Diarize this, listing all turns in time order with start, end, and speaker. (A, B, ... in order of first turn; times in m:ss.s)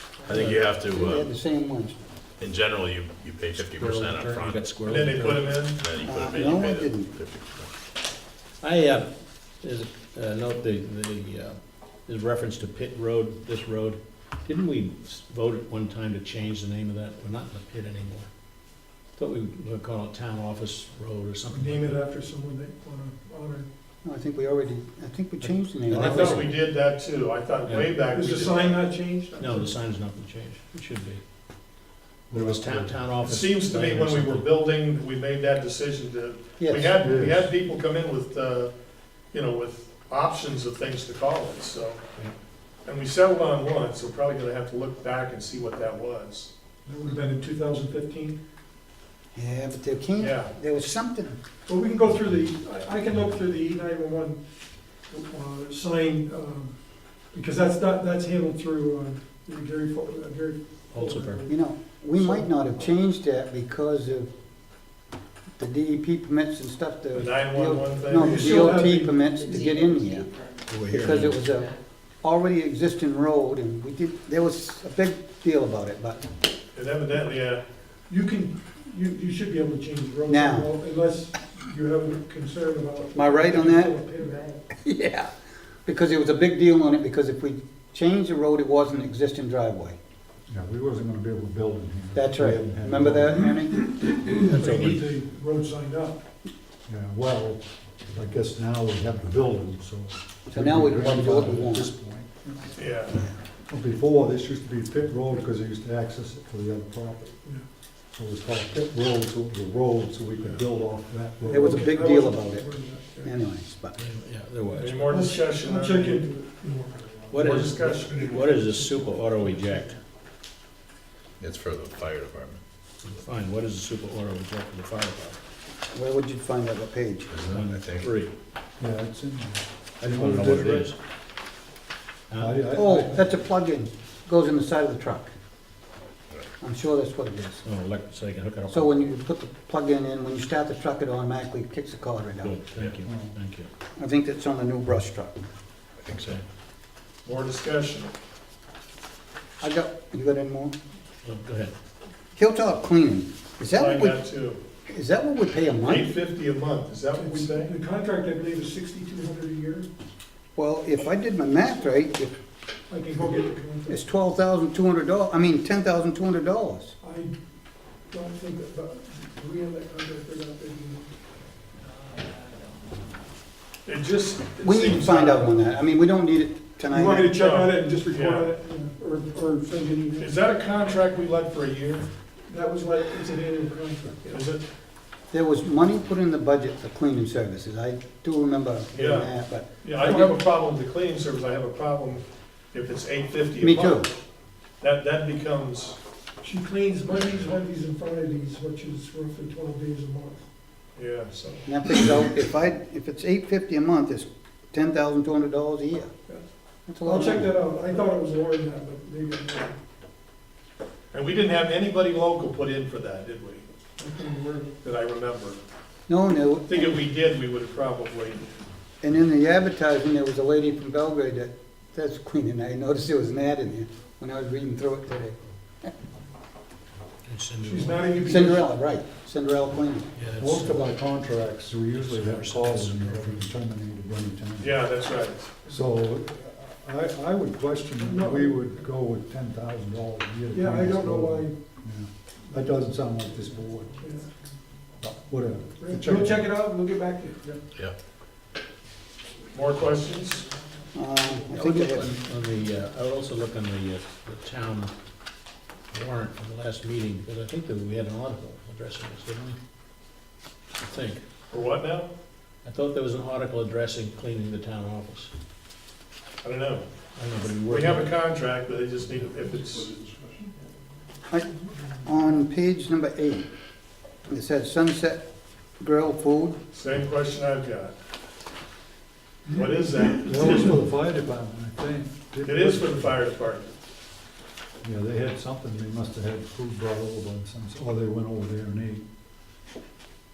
0:00.3-0:01.3 A
0:00.3-0:02.0 B
0:02.4-0:04.6 A
0:03.7-0:05.5 C
0:04.8-0:05.8 D
0:05.8-0:07.7 A
0:06.0-0:07.1 B
0:08.6-0:09.1 C
0:09.6-0:18.3 C
0:19.2-0:22.0 C
0:21.5-0:23.7 E
0:24.0-0:26.5 B
0:25.4-0:26.5 C
0:25.9-0:28.8 D
0:27.6-0:27.9 C
0:28.1-0:29.8 E
0:29.4-0:31.2 C
0:32.3-0:33.0 F
0:32.3-0:34.5 C
0:33.2-0:38.7 D
0:36.6-0:37.0 B
0:37.0-0:37.5 F
0:39.3-0:42.1 D
0:42.8-0:46.5 D
0:46.8-0:48.4 E
0:49.3-0:51.4 B
0:50.2-0:50.5 D
0:51.6-1:02.8 E
1:00.9-1:01.5 C
1:01.5-1:04.3 B
1:05.6-1:10.3 B
1:07.1-1:08.8 D
1:08.2-1:09.7 E
1:10.7-1:11.4 C
1:10.8-1:16.2 B
1:16.7-1:17.6 D
1:18.1-1:24.6 E
1:20.3-1:20.7 B
1:23.1-1:24.0 B
1:24.7-1:25.3 B
1:25.8-1:30.0 B
1:30.5-1:33.6 F
1:32.1-1:33.9 B
1:34.0-1:36.2 E
1:34.5-1:35.1 C
1:36.9-1:42.8 F
1:40.5-1:41.9 B
1:42.8-1:43.2 D
1:43.7-1:47.4 F
1:48.1-1:51.9 F
1:51.4-1:53.4 E
1:51.5-1:54.0 B
1:54.0-1:55.1 C
1:54.7-1:56.2 D
1:55.1-1:59.9 E
1:57.3-2:00.0 C
1:57.4-1:58.3 D
2:01.4-2:02.6 A
2:03.0-2:05.4 C
2:05.9-2:07.3 B
2:07.3-2:08.1 A
2:07.5-2:08.3 C
2:08.8-2:10.9 F
2:10.0-2:11.0 C
2:12.3-2:12.7 C
2:12.4-2:13.3 F
2:12.7-2:15.3 B
2:16.6-2:17.6 B
2:17.6-2:19.0 C
2:18.7-2:22.6 B
2:22.4-2:23.7 C
2:23.0-2:23.3 F
2:24.0-2:25.4 B
2:26.0-2:26.3 A
2:26.1-2:26.4 C
2:27.2-2:28.1 D
2:29.6-2:30.7 B
2:31.2-2:31.7 C
2:32.4-2:34.2 B
2:33.7-2:34.6 D
2:34.9-2:36.1 B
2:35.8-2:37.7 D
2:37.2-2:39.9 E
2:40.6-2:42.3 B
2:42.9-2:44.0 E
2:43.9-2:46.9 B
2:47.0-2:47.3 E
2:48.1-2:51.1 E
2:53.8-2:55.6 D
2:54.6-2:57.4 B
2:56.9-3:00.3 E
2:57.3-2:58.5 D
3:00.2-3:02.1 D
3:02.5-3:04.5 E
3:04.3-3:04.6 D
3:05.3-3:09.7 B
3:08.9-3:14.1 D
3:09.9-3:10.4 E
3:13.6-3:14.1 B
3:14.8-3:16.0 D
3:16.4-3:20.4 E
3:21.0-3:21.6 D
3:21.6-3:26.1 B
3:26.9-3:27.6 B
3:27.0-3:29.8 E
3:31.1-3:33.6 D
3:34.0-3:34.8 E
3:34.8-3:35.6 D
3:36.1-3:37.0 B
3:36.7-3:38.4 D
3:39.0-3:45.9 B
3:47.2-3:48.1 C
3:47.6-3:48.7 E
3:48.1-3:50.1 B
3:50.1-3:50.9 C
3:50.4-3:54.8 F
3:51.9-3:53.4 C
3:54.6-3:55.5 D
3:55.7-4:04.0 F
3:58.0-3:58.7 E
4:00.5-4:01.6 E
4:04.0-4:04.3 E
4:05.0-4:06.5 F
4:05.8-4:07.4 E
4:09.5-4:10.5 D
4:10.9-4:12.1 B
4:11.5-4:14.9 C
4:15.9-4:19.6 C
4:20.8-4:21.2 C
4:21.5-4:22.1 D
4:22.6-4:25.3 C
4:26.4-4:26.8 D
4:27.1-4:28.1 C
4:27.7-4:30.0 D
4:32.0-4:33.4 B
4:34.3-4:35.2 B
4:35.8-4:36.6 B
4:36.7-4:37.9 D
4:39.5-4:40.8 D
4:40.2-4:43.1 F
4:42.4-4:43.7 D
4:44.8-4:49.0 F